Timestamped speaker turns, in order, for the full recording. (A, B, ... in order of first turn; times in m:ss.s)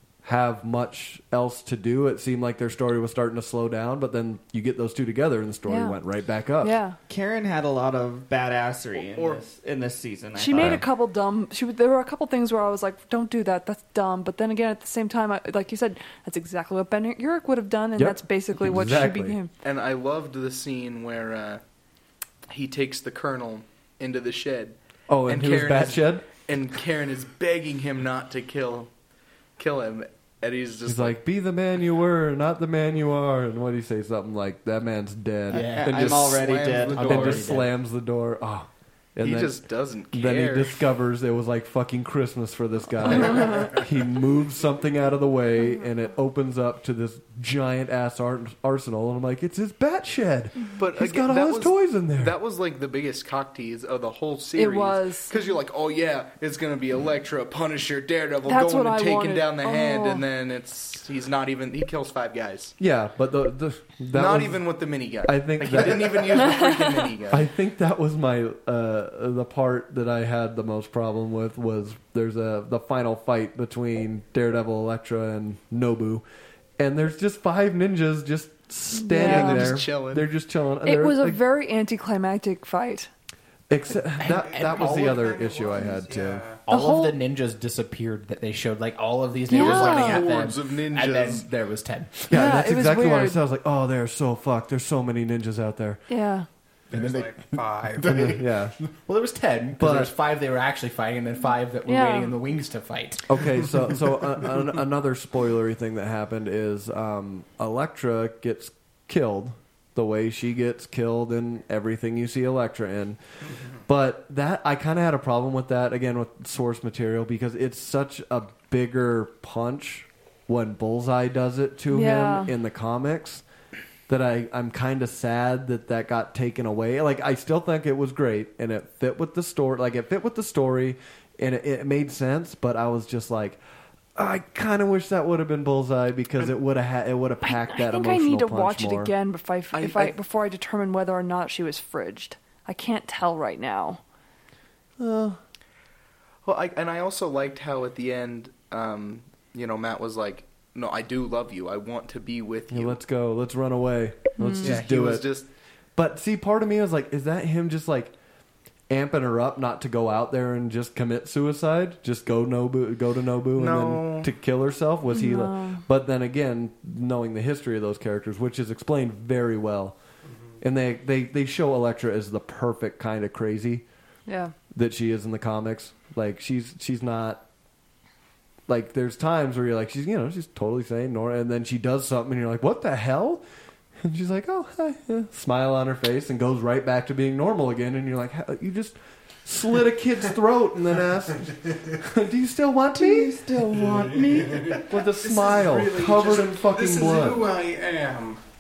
0:00.2-0:06.8 A
0:05.7-0:06.0 B
0:06.6-0:07.0 B
0:07.1-0:10.8 C
0:10.4-0:19.5 B
0:10.6-0:10.8 A
0:18.0-0:19.4 A
0:19.6-0:21.6 D
0:22.5-0:28.9 D
0:25.1-0:26.3 A
0:29.6-0:31.2 D
0:30.9-0:52.4 A
0:35.5-0:36.1 E
0:35.6-0:37.5 C
0:36.2-0:37.4 D
0:36.9-0:37.7 E
0:39.2-0:40.8 D
0:43.2-0:43.7 B
0:50.8-1:02.8 D
0:54.6-0:55.3 B
0:58.4-1:00.2 B
1:02.8-1:04.6 A
1:04.1-1:07.5 D
1:05.2-1:06.4 A
1:06.6-1:07.0 B
1:07.3-1:16.2 A
1:16.8-1:21.4 A
1:18.9-1:19.8 B
1:19.2-1:20.3 D
1:20.8-1:23.1 B
1:23.7-1:27.2 A
1:24.2-1:25.2 E
1:24.5-1:26.6 F
1:26.7-1:32.3 E
1:29.5-1:30.3 B
1:29.5-1:31.5 D
1:32.3-1:36.0 A
1:32.3-1:33.4 B
1:36.1-1:36.5 B
1:36.9-1:38.1 F
1:36.9-1:43.4 E
1:38.0-1:38.8 A
1:39.8-1:40.1 A
1:41.9-1:42.4 B
1:43.3-1:53.2 A
1:53.9-2:03.4 A
2:01.9-2:02.5 B
2:04.1-2:13.6 A
2:14.2-2:19.1 A
2:17.4-2:24.0 B
2:19.7-2:20.1 D
2:25.0-2:25.4 A
2:26.4-2:33.0 D
2:32.7-2:35.3 A
2:34.4-2:34.8 B
2:34.6-2:35.5 D
2:36.0-2:38.1 A
2:38.9-2:50.0 A
2:43.6-2:44.3 D
2:45.1-2:45.8 B
2:50.6-2:53.8 A
2:54.3-2:54.5 B
2:54.7-2:57.4 A
2:58.7-3:03.4 A
3:04.0-3:17.5 A
3:13.7-3:18.4 F